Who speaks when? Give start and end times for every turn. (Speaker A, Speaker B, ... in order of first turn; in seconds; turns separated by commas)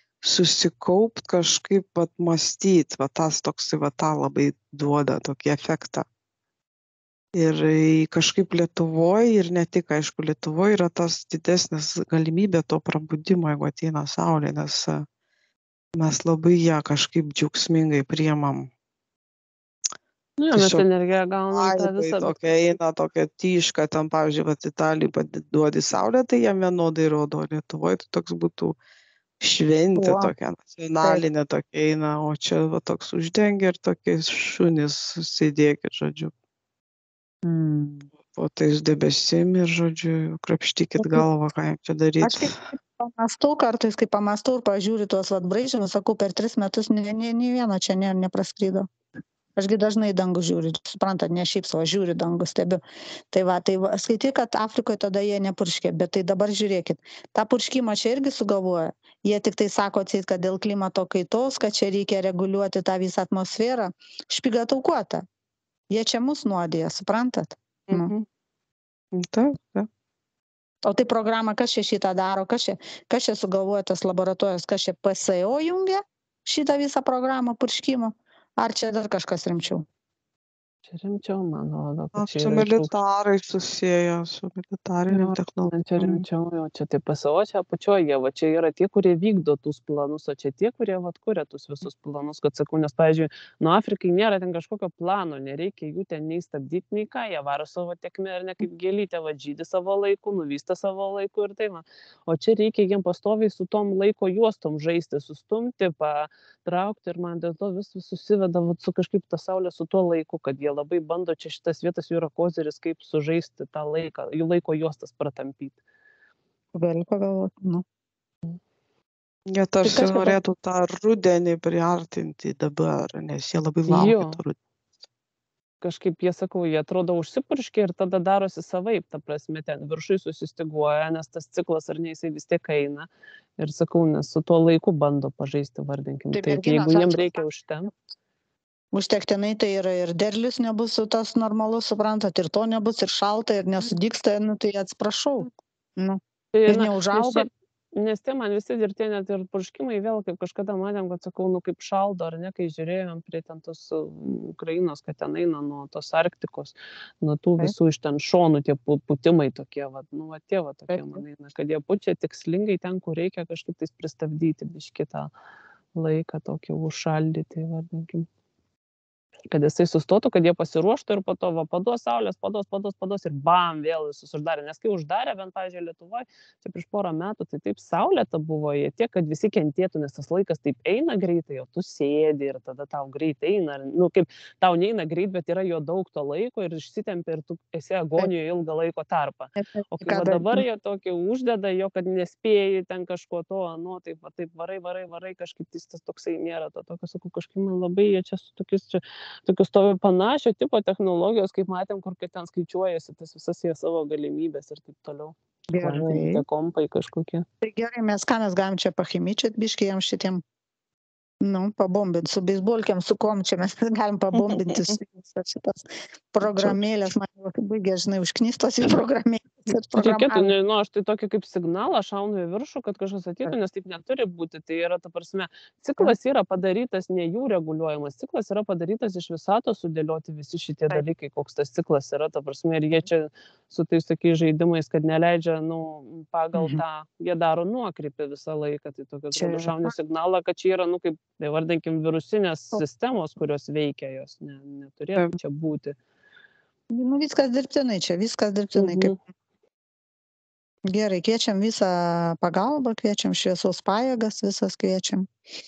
Speaker A: 0.2-6.1, Speaker A: 7.3-15.1, Speaker A: 15.9-18.7, Speaker B: 20.4-22.4, Speaker A: 20.5-20.9, Speaker A: 21.5-28.8, Speaker A: 29.4-36.3, Speaker C: 30.0-30.3, Speaker C: 37.5-38.1, Speaker A: 38.3-42.6, Speaker C: 41.0-41.2, Speaker C: 42.2-48.9, Speaker C: 49.6-52.8, Speaker C: 53.3-65.2, Speaker C: 65.9-68.1, Speaker A: 67.9-68.2, Speaker A: 69.1-69.9, Speaker C: 70.8-79.9, Speaker B: 80.9-82.9, Speaker A: 82.2-86.2, Speaker B: 85.1-115.8, Speaker C: 116.7-117.8, Speaker A: 119.5-124.6, Speaker B: 119.8-120.3, Speaker B: 123.9-124.4, Speaker B: 125.8-137.9, Speaker C: 136.3-137.4, Speaker C: 138.9-147.5, Speaker B: 146.5-165.3, Speaker C: 160.9-161.2, Speaker B: 165.9-168.3, Speaker B: 169.5-207.5, Speaker C: 189.6-190.6, Speaker C: 205.7-206.4, Speaker C: 207.6-210.4, Speaker C: 211.4-220.5, Speaker A: 214.5-215.0, Speaker B: 220.0-246.0, Speaker C: 236.6-236.8, Speaker C: 239.3-239.9, Speaker C: 246.9-249.1, Speaker B: 248.8-249.2, Speaker C: 250.9-255.3